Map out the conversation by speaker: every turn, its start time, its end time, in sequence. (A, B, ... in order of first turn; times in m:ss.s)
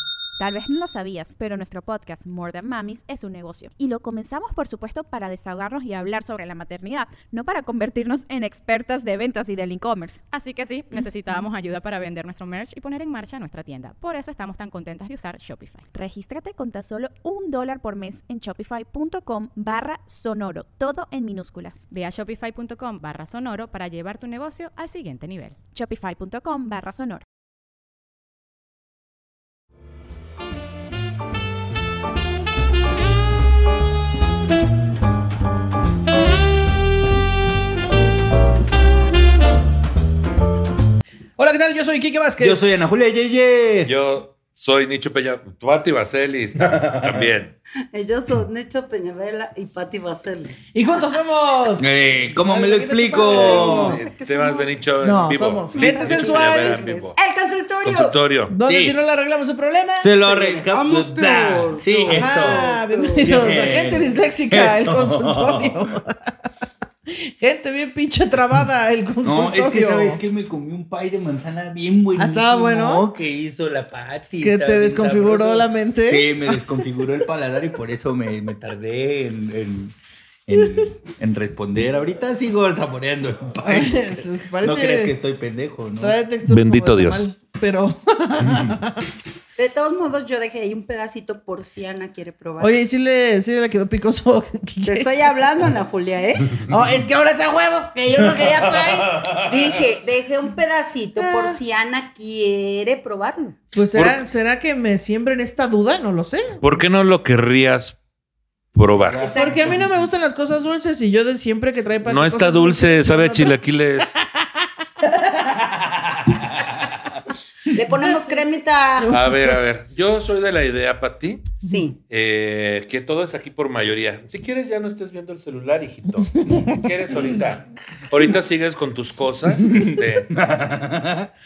0:00.4-0:10.2 A
0:10.3-0:15.9 B
0:15.9-0:21.8 A
0:21.9-0:25.6 B
0:25.7-0:27.2 A
0:41.4-0:42.8 C
0:42.4-0:43.9 D
0:43.8-0:47.6 E
0:46.7-0:47.2 D
0:47.9-0:50.6 F
0:50.7-0:54.0 C
0:51.8-0:54.0 D
0:53.2-0:54.8 F
0:54.0-0:57.2 E
0:55.0-0:56.8 C
0:55.7-0:58.2 F
0:57.8-0:58.6 E
0:58.5-1:00.1 C
0:58.6-0:59.0 D
1:00.0-1:02.7 D
1:00.2-1:03.8 F
1:02.1-1:06.2 C
1:03.2-1:05.7 D
1:07.1-1:10.2 C
1:09.2-1:19.9 D
1:12.2-1:13.1 C
1:14.4-1:16.6 C
1:20.5-1:26.2 D
1:23.6-1:25.2 C
1:26.0-1:29.1 C
1:26.5-1:27.2 E
1:29.6-1:32.8 F
1:32.6-1:35.1 C
1:34.8-1:36.6 F
1:36.6-1:39.2 C
1:38.4-1:39.4 D
1:39.3-1:43.6 F
1:41.2-1:41.6 C
1:43.7-1:46.6 C
1:43.9-1:44.2 E
1:46.6-1:48.0 E
1:48.8-1:49.2 E
1:49.1-1:49.9 D
1:49.2-1:49.7 F
1:49.3-1:53.6 C
1:52.0-1:54.2 E
1:57.7-1:59.2 F
1:59.1-2:01.5 E
2:01.6-2:02.0 F
2:02.1-2:10.3 E
2:10.3-2:11.3 D